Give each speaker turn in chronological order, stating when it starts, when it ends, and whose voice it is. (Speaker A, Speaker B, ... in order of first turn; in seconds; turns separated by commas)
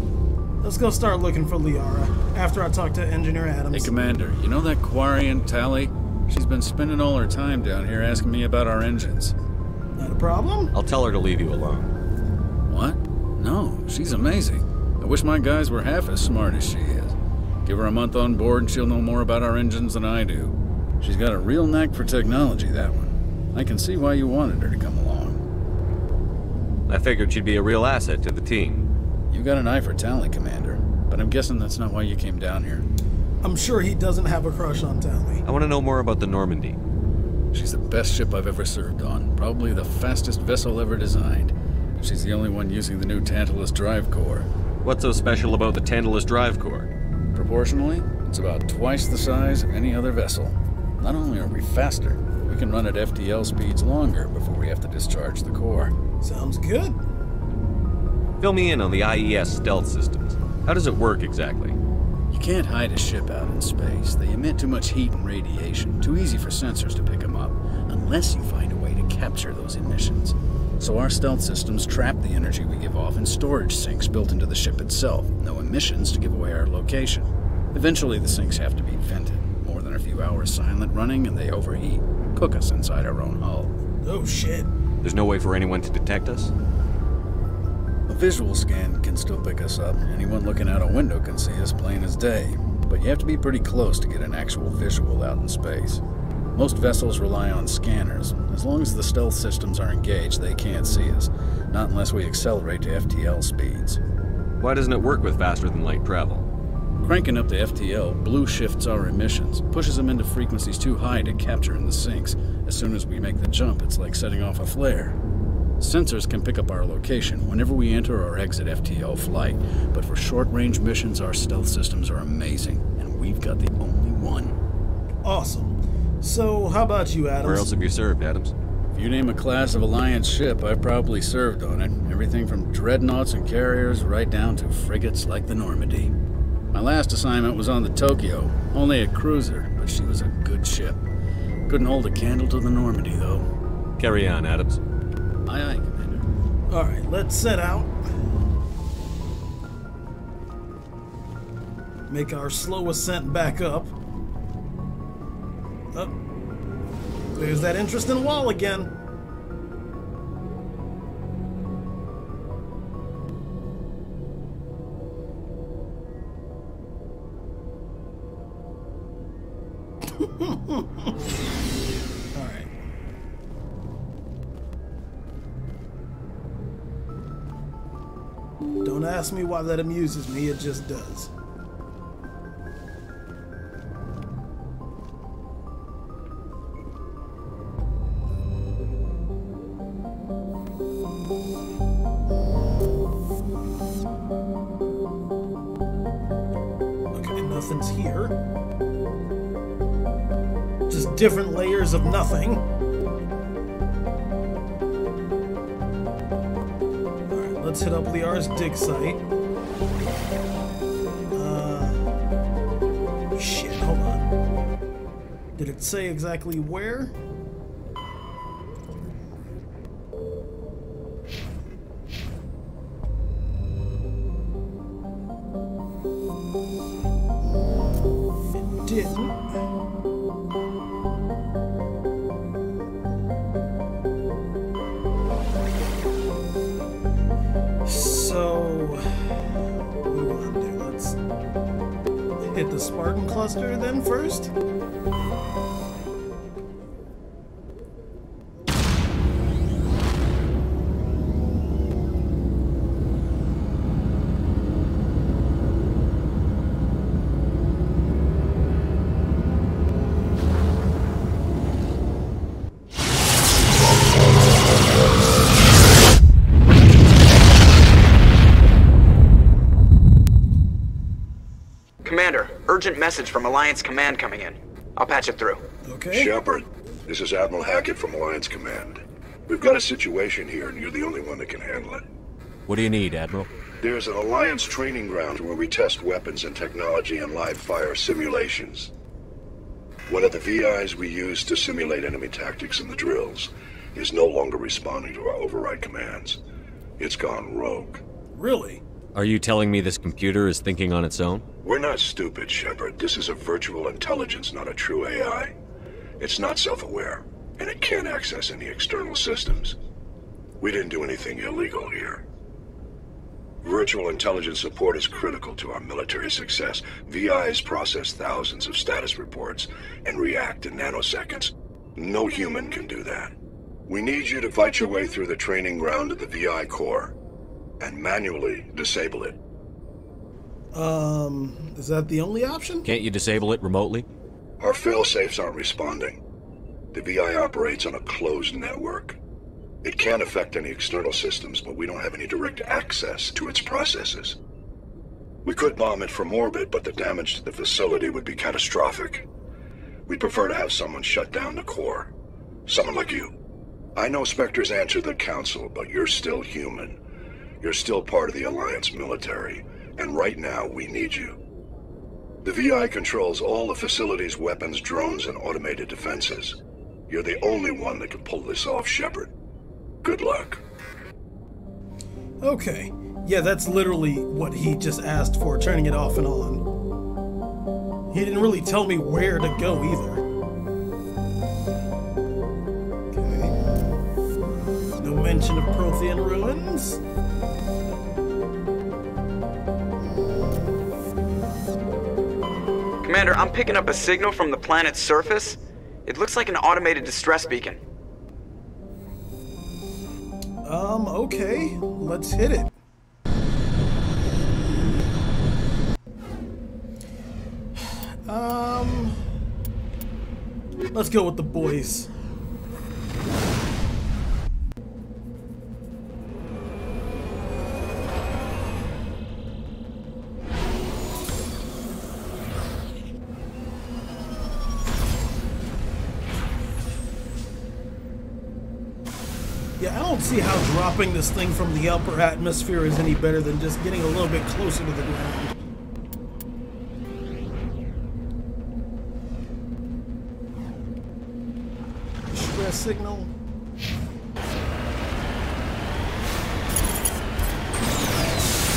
Speaker A: 0.6-3.9, Speaker B: 3.7-9.3, Speaker A: 10.0-10.7, Speaker C: 10.7-11.9, Speaker B: 12.7-25.4, Speaker C: 26.9-28.9, Speaker B: 29.3-32.9, Speaker A: 33.4-35.4, Speaker C: 35.5-36.8, Speaker B: 37.5-44.5, Speaker C: 44.8-46.9, Speaker B: 47.3-55.9, Speaker A: 56.2-57.0, Speaker C: 58.4-61.8, Speaker B: 62.3-83.7, Speaker A: 84.0-84.7, Speaker C: 85.0-86.5, Speaker B: 88.1-96.0, Speaker B: 96.5-104.0, Speaker C: 104.6-106.5, Speaker B: 107.0-115.2, Speaker B: 115.8-124.6, Speaker A: 125.2-127.7, Speaker C: 127.4-128.5, Speaker B: 128.9-136.1, Speaker B: 136.7-141.0, Speaker B: 141.7-143.5, Speaker C: 144.0-144.8, Speaker B: 145.5-146.3, Speaker A: 146.7-148.0, Speaker A: 152.1-153.9, Speaker A: 157.3-158.9, Speaker A: 170.1-171.1, Speaker A: 172.3-172.7, Speaker A: 178.8-181.3, Speaker A: 197.1-198.4, Speaker A: 200.9-202.7, Speaker A: 207.3-209.2, Speaker A: 211.3-212.0, Speaker A: 213.3-214.3, Speaker A: 215.6-217.2, Speaker A: 228.7-229.5, Speaker A: 237.8-239.0, Speaker A: 240.0-241.2, Speaker A: 242.4-244.5, Speaker D: 272.0-275.6, Speaker A: 275.9-276.3, Speaker E: 276.1-282.0, Speaker C: 282.7-283.5, Speaker E: 283.8-288.9, Speaker E: 290.1-296.4, Speaker E: 297.0-298.0, Speaker A: 298.4-298.8, Speaker C: 299.1-301.4, Speaker E: 301.6-305.5, Speaker E: 306.2-309.8, Speaker E: 310.6-312.2, Speaker E: 313.6-323.3, Speaker E: 323.9-327.1, Speaker E: 327.8-329.4, Speaker A: 330.7-332.9, Speaker C: 332.9-334.1, Speaker E: 334.6-336.2, Speaker E: 336.9-339.2, Speaker E: 339.8-344.4, Speaker E: 345.4-349.3, Speaker E: 350.1-352.1, Speaker E: 352.7-353.3, Speaker E: 354.0-357.0, Speaker E: 357.6-361.4, Speaker E: 362.4-369.3, Speaker E: 370.0-370.6, Speaker A: 372.4-376.6, Speaker A: 378.1-380.2, Speaker A: 383.1-383.6, Speaker A: 385.0-387.0, Speaker D: 393.0-397.8, Speaker A: 400.6-402.8, Speaker A: 407.8-409.2, Speaker A: 410.9-412.1, Speaker A: 429.8-435.5, Speaker A: 442.3-443.3